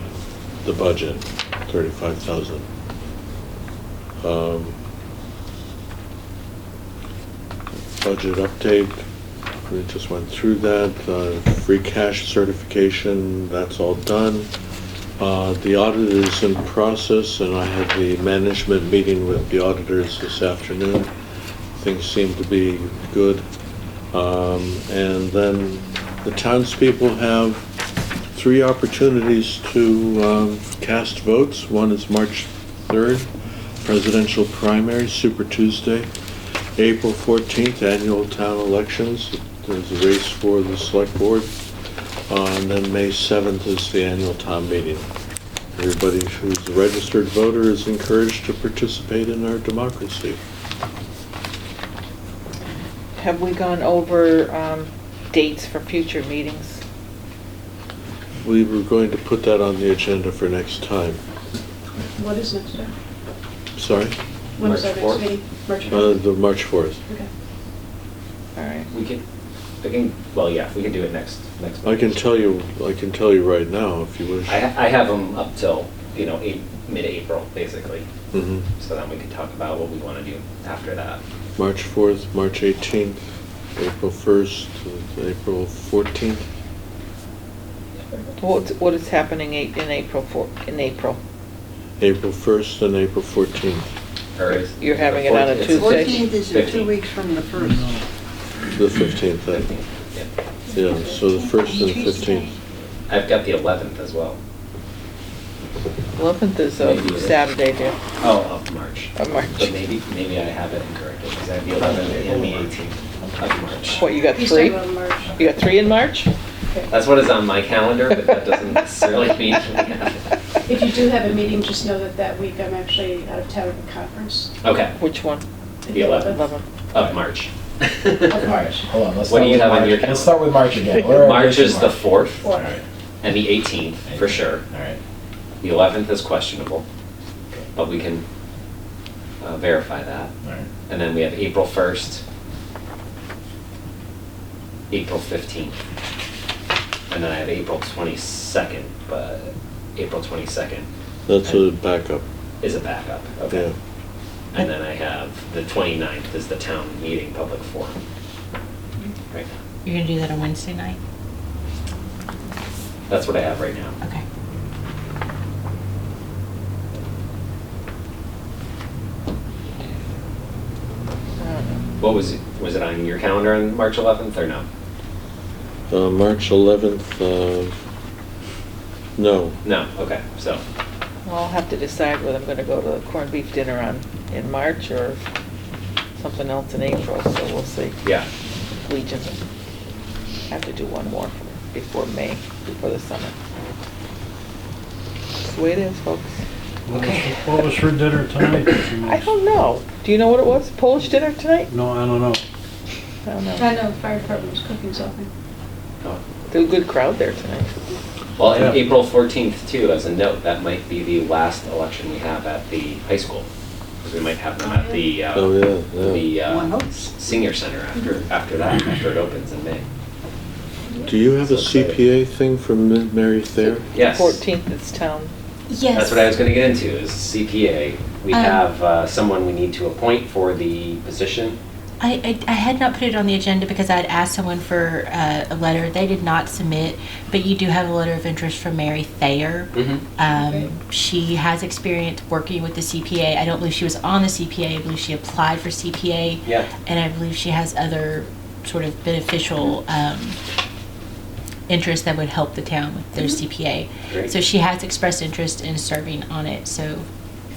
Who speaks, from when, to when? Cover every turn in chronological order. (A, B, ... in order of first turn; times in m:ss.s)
0:00.6-0:02.7 A
0:04.2-0:04.8 A
0:08.0-0:09.0 A
0:09.7-0:14.5 A
0:15.2-0:21.1 A
0:21.8-0:23.4 A
0:24.1-0:27.6 A
0:28.3-0:33.3 A
0:33.8-0:36.1 A
0:36.8-0:41.5 A
0:42.3-0:45.1 A
0:45.7-0:50.4 A
0:53.2-0:56.8 B
0:58.4-1:01.2 A
1:02.2-1:02.9 C
1:03.8-1:04.1 A
1:04.6-1:06.2 C
1:04.6-1:05.3 D
1:05.9-1:07.0 A
1:08.6-1:08.9 B
1:08.9-1:09.2 D
1:09.8-1:12.2 D
1:11.8-1:14.6 A
1:14.5-1:18.1 D
1:18.3-1:18.7 A
1:18.8-1:21.2 D
1:21.6-1:23.2 A
1:23.8-1:26.4 A
1:28.4-1:31.2 B
1:32.0-1:33.9 A
1:34.4-1:37.0 D
1:34.8-1:36.3 B
1:35.6-1:37.8 E
1:37.6-1:38.0 F
1:38.7-1:39.7 A
1:39.5-1:40.3 D
1:40.7-1:42.5 A
1:41.4-1:42.3 E
1:43.1-1:44.4 D
1:46.2-1:48.0 B
1:46.8-1:47.4 D
1:48.2-1:54.0 D
1:49.2-1:49.8 B
1:51.7-1:52.7 G
1:53.2-1:53.7 G
1:53.8-1:55.4 C
1:53.9-1:54.8 B
1:55.4-1:56.3 B
1:56.9-2:00.3 D
2:00.6-2:04.5 C
2:04.6-2:04.9 D
2:05.0-2:05.4 B
2:05.8-2:06.4 C
2:05.9-2:06.4 D
2:06.2-2:06.6 B
2:06.9-2:08.5 D
2:08.2-2:08.8 C
2:08.4-2:12.8 G
2:09.2-2:10.4 D
2:11.0-2:12.4 D
2:12.4-2:12.6 C
2:13.2-2:14.6 D
2:14.1-2:15.0 G
2:15.6-2:16.8 D
2:17.7-2:18.2 D
2:19.4-2:20.3 D
2:20.4-2:20.7 G
2:20.9-2:22.2 D
2:24.9-2:25.8 D
2:27.1-2:30.9 D
2:31.3-2:32.2 A
2:32.6-2:33.6 D
2:33.5-2:33.8 A
2:34.5-2:38.0 D
2:39.3-2:39.6 D
2:39.8-2:41.0 H
2:43.1-2:44.0 D
2:51.4-2:51.8 B
2:52.0-2:54.6 D
2:55.9-2:57.8 A
2:59.2-2:59.6 A
2:59.6-3:00.6 D
3:01.2-3:05.2 B
3:06.2-3:08.0 B
3:08.8-3:09.4 B
3:10.5-3:13.3 B
3:15.4-3:16.3 B
3:16.8-3:19.5 F
3:19.0-3:21.7 B
3:21.7-3:22.4 F
3:23.2-3:23.7 B
3:23.6-3:25.3 C
3:26.5-3:27.8 B
3:28.4-3:33.5 D
3:28.4-3:28.9 F
3:34.0-3:39.8 D
3:34.6-3:35.0 C
3:35.3-3:36.3 A
3:36.4-3:37.2 E
3:41.0-3:43.9 A
3:41.3-3:42.0 D
3:43.6-3:45.3 B
3:43.9-3:44.4 D
3:45.7-3:46.3 H
3:45.9-3:51.6 D
3:48.3-3:48.6 H
3:52.0-4:10.4 H
3:59.7-4:00.0 D
4:00.3-4:00.7 C
4:06.4-4:06.7 D
4:11.7-4:17.0 H
4:14.1-4:14.3 D